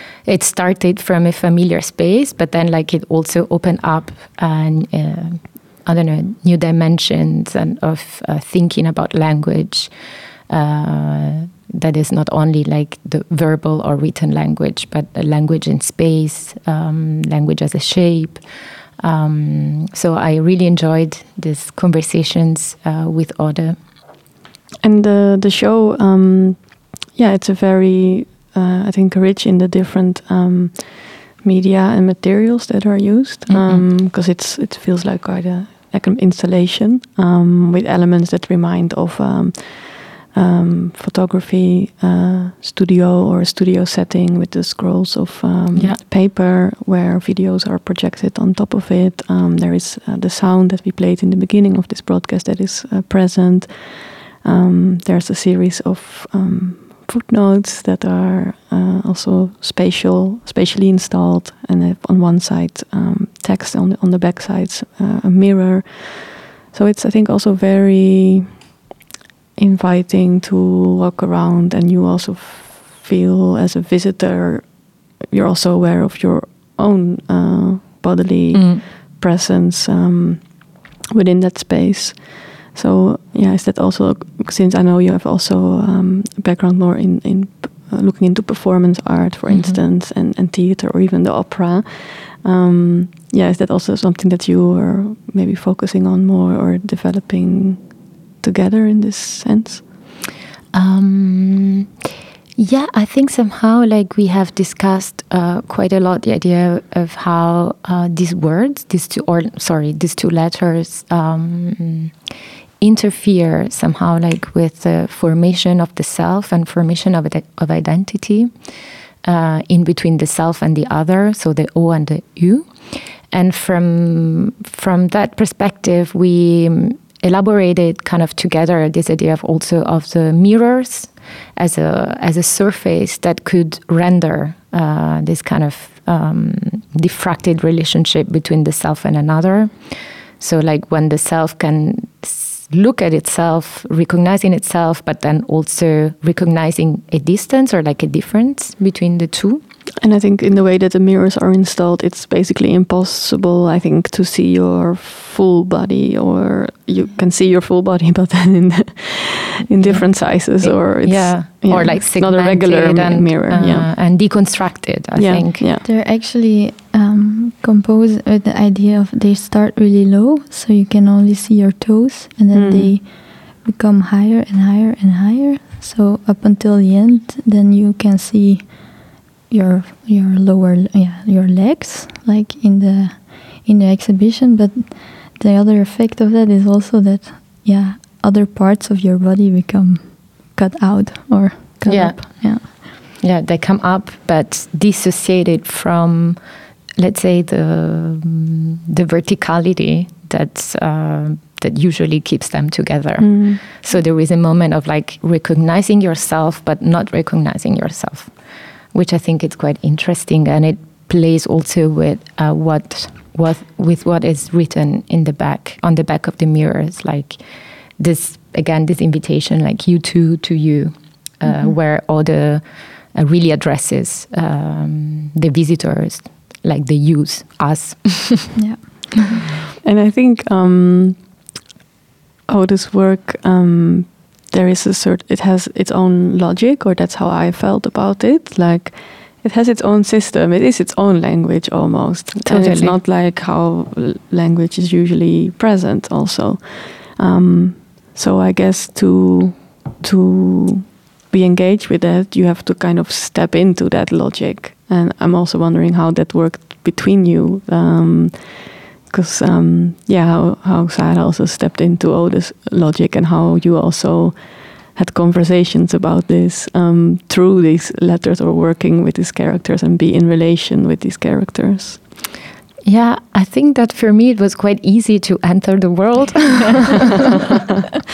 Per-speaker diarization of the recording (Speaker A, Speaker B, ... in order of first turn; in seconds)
Speaker A: 0.2-9.9, 10.5-18.4, 19.0-23.8, 33.5-33.9, 45.7-46.0, 78.5-78.8, 89.5-89.8, 100.7-101.9, 102.6-112.1, 112.8-118.5, 119.2-149.6, 159.8-165.6, 191.8-196.4, 197.0-208.3, 208.9-217.4, 218.0-228.5, 242.4-243.0, 272.9-277.4
Speaker B: 24.8-68.7, 69.6-99.9, 150.0-163.9, 165.2-165.8, 172.5-172.9, 203.2-203.6, 229.8-231.2, 232.5-272.0
Speaker C: 165.8-192.7, 228.5-229.4